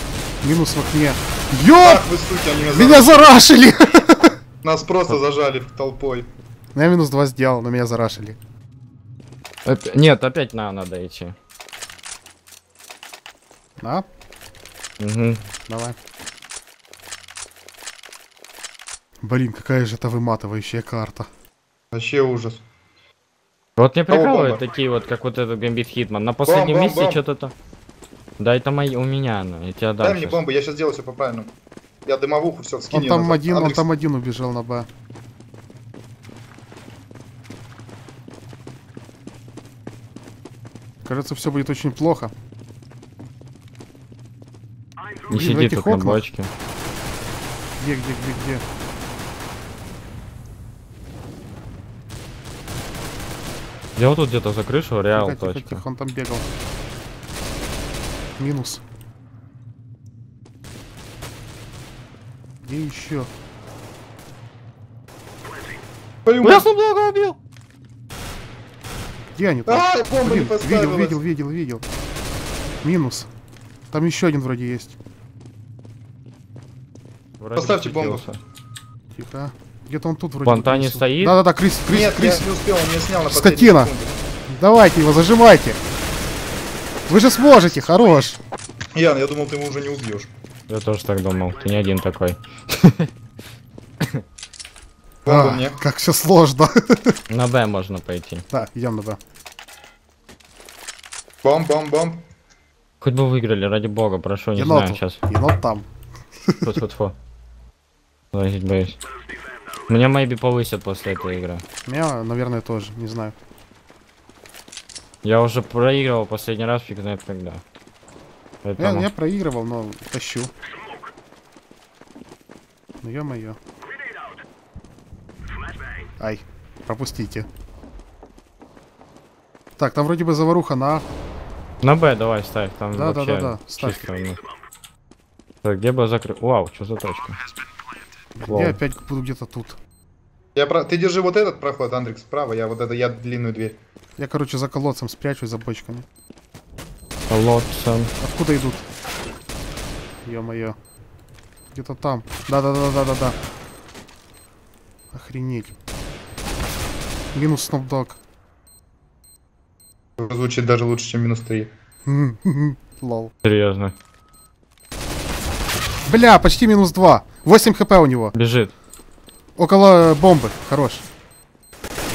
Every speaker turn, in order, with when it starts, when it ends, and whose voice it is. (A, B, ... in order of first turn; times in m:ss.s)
0:00.4-0:02.1 A
0:01.8-0:03.4 B
0:02.7-0:04.4 A
0:04.6-0:06.3 B
0:06.8-0:08.4 A
0:09.6-0:11.4 C
0:13.8-0:14.1 A
0:15.0-0:15.4 C
0:15.7-0:16.0 A
0:19.2-0:21.3 A
0:21.9-0:22.6 B
0:23.8-0:27.5 C
0:24.1-0:24.6 B
0:26.5-0:27.2 B
0:28.4-0:30.4 C
0:30.0-0:31.5 B
0:32.1-0:33.8 B
0:32.9-0:34.9 A
0:41.0-0:42.3 A
0:45.3-0:46.5 C
0:45.3-0:46.2 A
0:47.8-0:48.6 A
0:54.0-0:55.8 C
0:55.1-0:56.4 A
0:58.4-0:58.8 A
1:02.6-1:03.3 A
1:06.3-1:06.7 B
1:06.4-1:07.4 C
1:09.4-1:11.8 A
1:09.7-1:11.2 B
1:12.8-1:13.3 A
1:13.9-1:15.0 A
1:17.4-1:18.4 C
1:17.6-1:18.2 B
1:19.1-1:22.4 A
1:20.4-1:21.4 C
1:21.9-1:24.2 B
1:23.3-1:23.9 A
1:24.5-1:25.8 A
1:27.1-1:28.4 A
1:29.0-1:30.3 B
1:30.7-1:33.1 C
1:35.2-1:35.8 B
1:35.3-1:37.2 A
1:37.3-1:38.4 C
1:38.5-1:39.2 A
1:41.4-1:42.2 B
1:43.0-1:45.2 C
1:44.6-1:45.9 A
1:46.5-1:46.8 A
1:46.6-1:47.2 C
1:48.3-1:49.0 C
1:49.9-1:51.6 C
1:51.9-1:53.4 A
1:55.2-1:57.6 C
1:58.6-1:59.1 C
1:58.8-2:00.5 A
2:03.0-2:03.6 A
2:06.2-2:07.5 A
2:09.8-2:11.1 A
2:11.8-2:14.4 C
2:12.9-2:14.1 A
2:15.6-2:17.4 C
2:18.4-2:19.8 A
2:18.5-2:18.8 C
2:20.6-2:23.8 B
2:24.2-2:26.1 A
2:27.3-2:28.1 C
2:28.2-2:28.8 A
2:30.2-2:30.8 A
2:31.7-2:33.4 A
2:35.1-2:35.8 A
2:37.3-2:38.2 A
2:40.2-2:41.7 B
2:42.1-2:43.3 A
2:43.4-2:43.9 C
2:46.1-2:48.4 A
2:48.4-2:48.7 C
2:49.6-2:51.0 A